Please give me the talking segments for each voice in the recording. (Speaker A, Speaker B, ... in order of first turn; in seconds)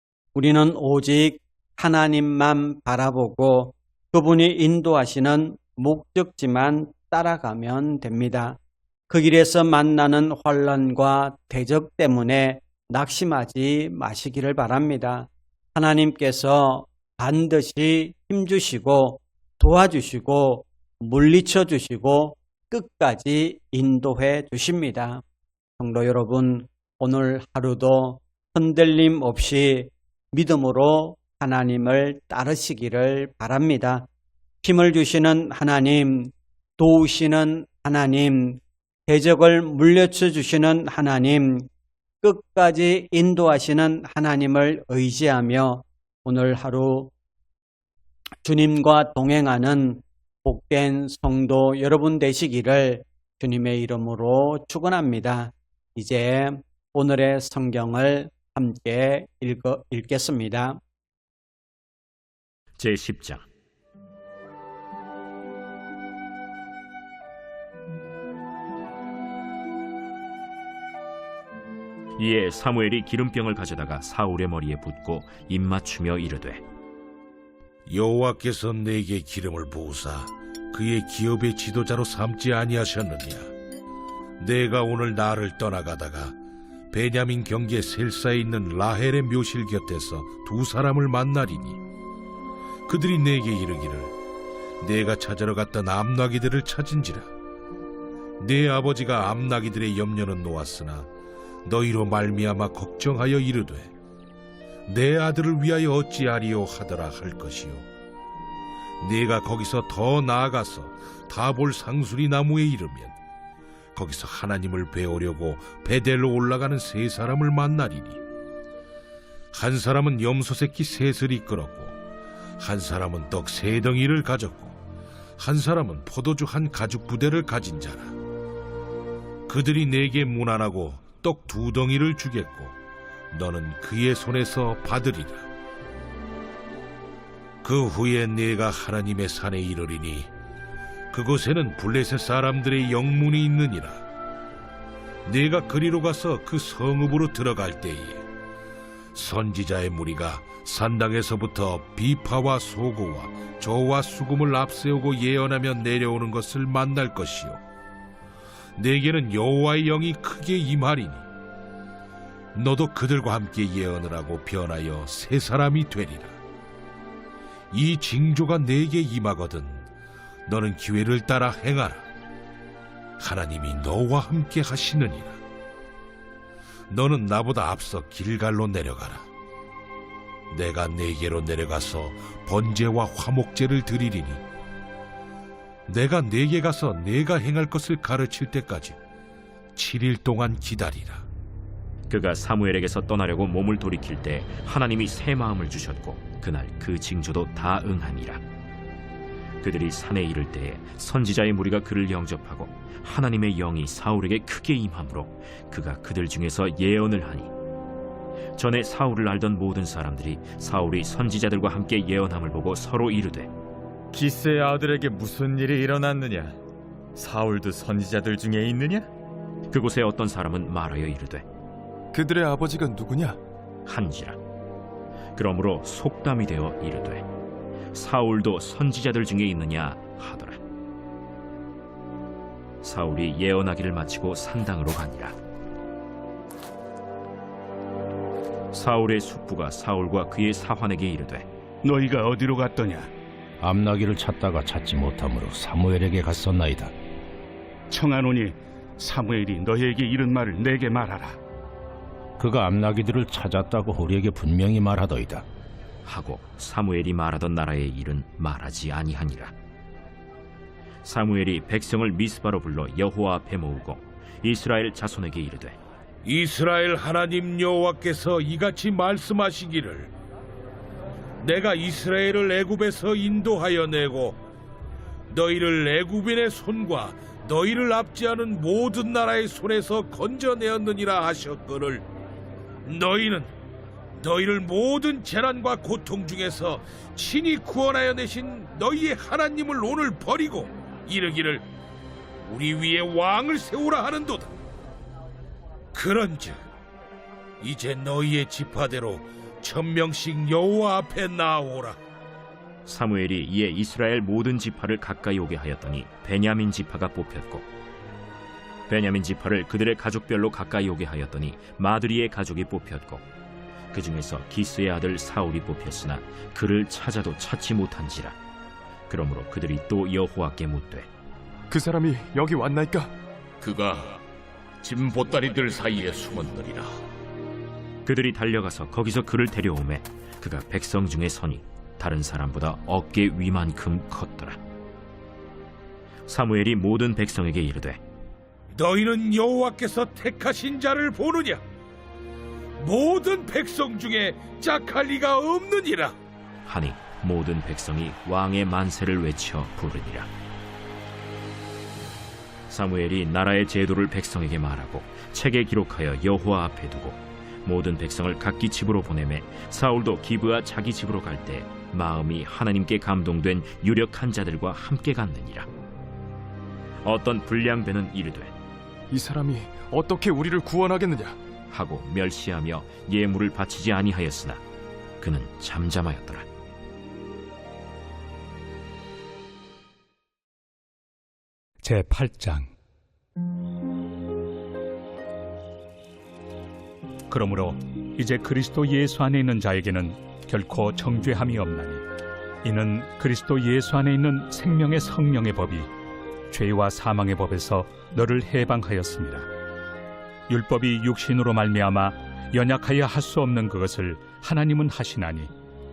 Speaker A: 0.3-8.6, 9.1-25.2, 25.8-34.1, 34.6-41.7, 42.2-47.1, 48.4-60.8
Speaker B: 62.8-63.5, 72.2-76.6, 192.1-198.4, 199.6-207.5, 208.6-213.5, 219.7-221.4, 223.8-224.4, 225.3-227.2, 227.9-230.6, 232.8-235.3, 238.7-241.5, 256.1-259.5, 261.0-265.8, 302.9-307.6, 308.9-313.2, 313.9-318.4, 319.1-321.1, 328.0-334.6, 336.3-338.0, 346.6-350.3, 352.7-365.7, 367.0-368.5, 371.7-374.6, 375.2-376.5
Speaker C: 77.8-83.5, 84.4-86.3, 86.9-91.8, 92.9-94.1, 94.8-97.3, 98.4-101.1, 101.6-103.9, 104.9-107.8, 109.0-113.1, 113.9-118.2, 119.5-121.9, 122.6-124.8, 125.4-128.1, 129.5-132.8, 133.3-135.5, 137.6-140.3, 141.1-144.0, 145.2-148.2, 149.1-157.6, 158.8-161.2, 162.5-166.4, 167.7-169.8, 170.4-172.0, 173.2-175.4, 176.9-179.3, 180.5-184.4, 185.9-189.0, 189.8-191.2, 266.2-270.1, 271.4-274.4, 275.3-282.0, 282.8-283.5, 284.2-291.6, 292.4-294.5, 295.9-296.6, 297.6-302.0, 338.7-341.6, 342.8-346.1
Speaker D: 214.1-216.6, 217.1-219.1
Speaker E: 222.1-223.4, 321.7-323.1, 369.1-371.4
Speaker F: 241.8-243.1, 247.9-251.4
Speaker G: 243.6-246.9, 252.4-255.4
Speaker H: 323.6-324.2, 324.8-326.9
Speaker I: 381.8-382.7, 387.3-392.0, 392.6-395.9, 396.5-399.5, 400.5-405.5